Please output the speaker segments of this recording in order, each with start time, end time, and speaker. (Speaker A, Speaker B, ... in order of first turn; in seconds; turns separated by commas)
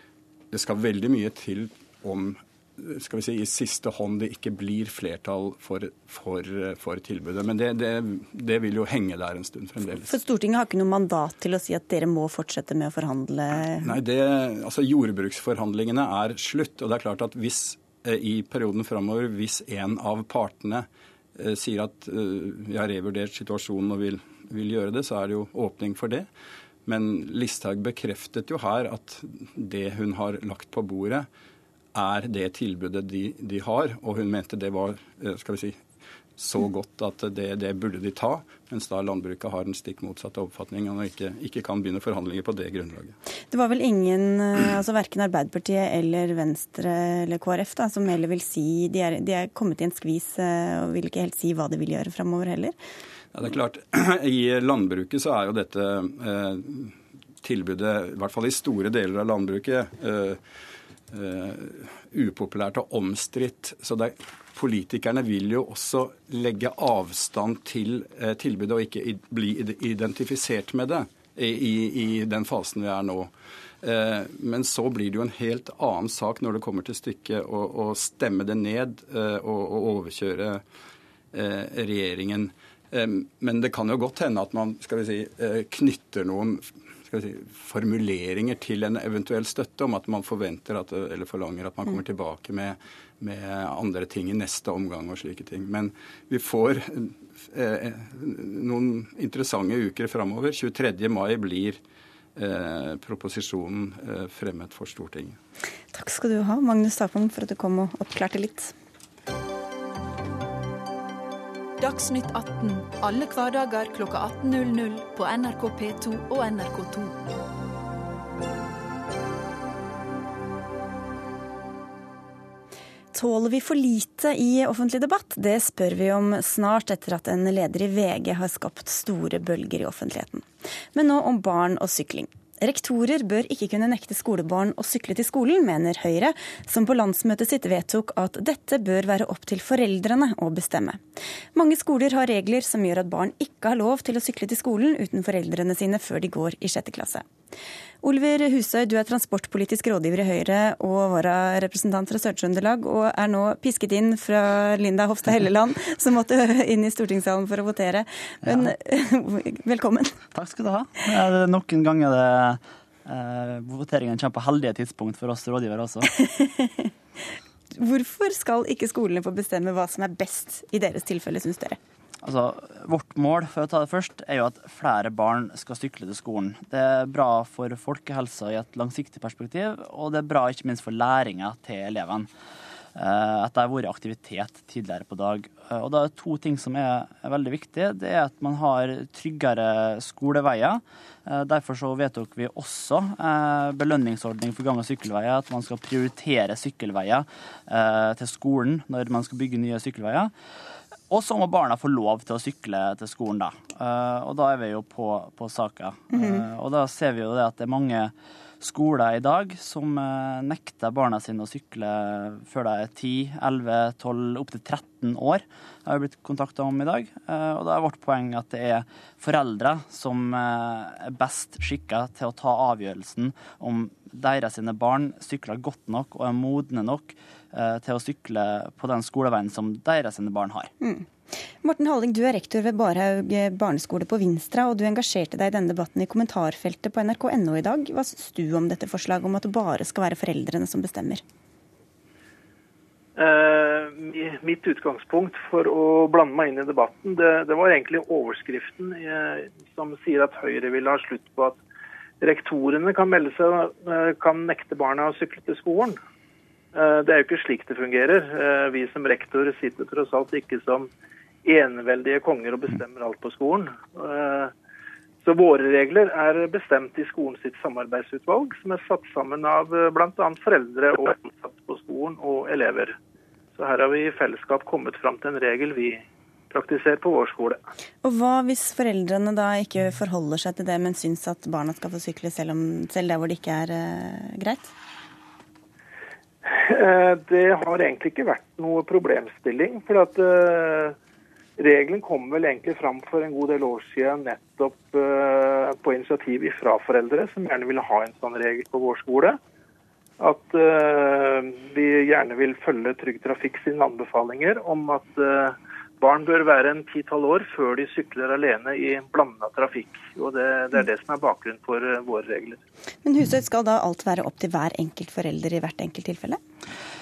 Speaker A: 0.5-10.1, Speaker B: 10.0-14.0, Speaker A: 13.8-26.3, Speaker A: 26.9-31.3, Speaker A: 31.9-35.8, Speaker A: 36.4-43.1, Speaker B: 43.5-52.8, Speaker A: 53.3-60.4, Speaker A: 61.1-80.6, Speaker A: 81.3-101.8, Speaker A: 102.3-105.4, Speaker B: 105.9-108.7, Speaker C: 111.8-117.2, Speaker B: 123.1-141.0, Speaker B: 141.5-147.2, Speaker B: 148.0-160.2, Speaker D: 158.4-158.7, Speaker D: 160.3-166.1, Speaker B: 166.2-166.9, Speaker B: 167.7-171.8, Speaker D: 172.2-182.3, Speaker D: 182.9-200.3, Speaker D: 201.1-230.7, Speaker B: 230.8-231.1, Speaker B: 231.6-241.2, Speaker E: 243.2-251.6, Speaker E: 252.2-256.0, Speaker E: 256.7-260.9, Speaker E: 261.4-264.5, Speaker E: 265.2-272.9, Speaker E: 273.6-277.6, Speaker B: 278.0-284.7, Speaker E: 286.4-290.9, Speaker E: 291.6-299.4, Speaker E: 300.2-312.6, Speaker B: 313.0-316.4